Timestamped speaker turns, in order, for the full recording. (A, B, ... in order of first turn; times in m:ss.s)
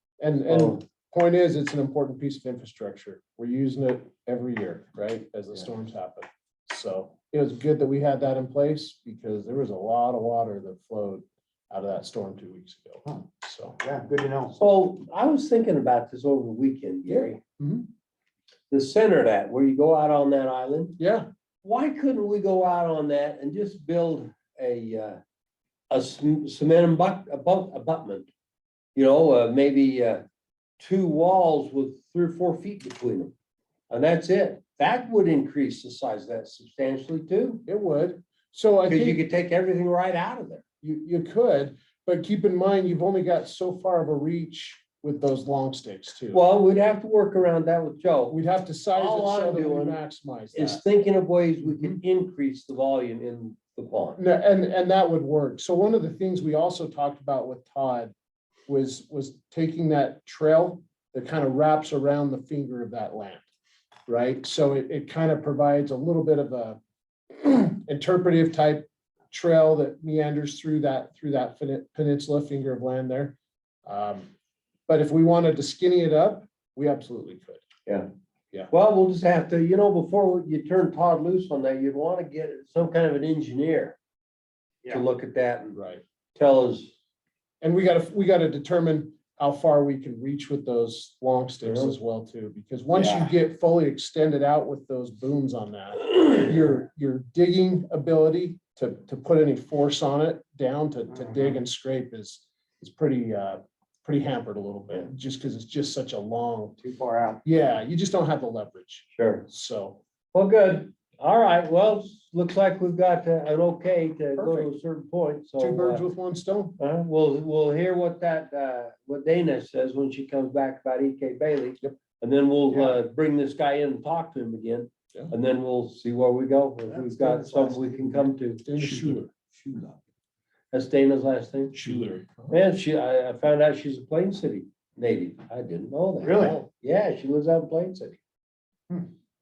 0:00.2-0:13.8 A
0:00.5-0:00.8 B
0:13.8-0:14.6 C
0:14.6-0:17.4 B
0:17.1-0:17.9 A
0:18.7-0:21.0 B
0:21.0-0:21.3 A
0:21.6-0:25.2 B
0:25.9-0:28.3 B
0:29.0-0:30.2 B
0:30.8-0:33.3 B
0:33.9-0:37.6 B
0:37.7-0:39.2 A
0:38.9-0:40.6 B
0:40.8-0:46.4 A
0:46.3-0:48.4 B
0:48.3-0:50.8 A
0:48.9-0:50.0 B
0:50.5-0:54.2 B
0:51.6-0:52.0 A
0:54.2-0:58.1 A
0:58.7-1:03.5 A
1:04.1-1:06.8 A
1:07.3-1:14.3 A
1:14.9-1:17.6 A
1:18.7-1:24.0 B
1:24.9-1:25.8 B
1:25.8-1:26.0 A
1:26.4-1:26.9 B
1:27.6-1:46.8 A
1:31.6-1:31.9 B
1:33.0-1:33.3 C
1:41.2-1:41.5 C
1:46.8-1:47.4 C
1:47.4-1:50.0 A
1:49.1-1:49.4 B
1:50.3-1:56.0 B
1:54.4-1:54.7 A
1:55.6-1:56.8 A
1:56.8-2:09.1 B
2:02.7-2:03.0 C
2:06.9-2:09.8 A
2:10.7-2:11.8 B
2:11.7-2:12.6 A
2:12.5-2:18.2 B
2:16.2-2:16.6 C
2:16.4-2:16.7 A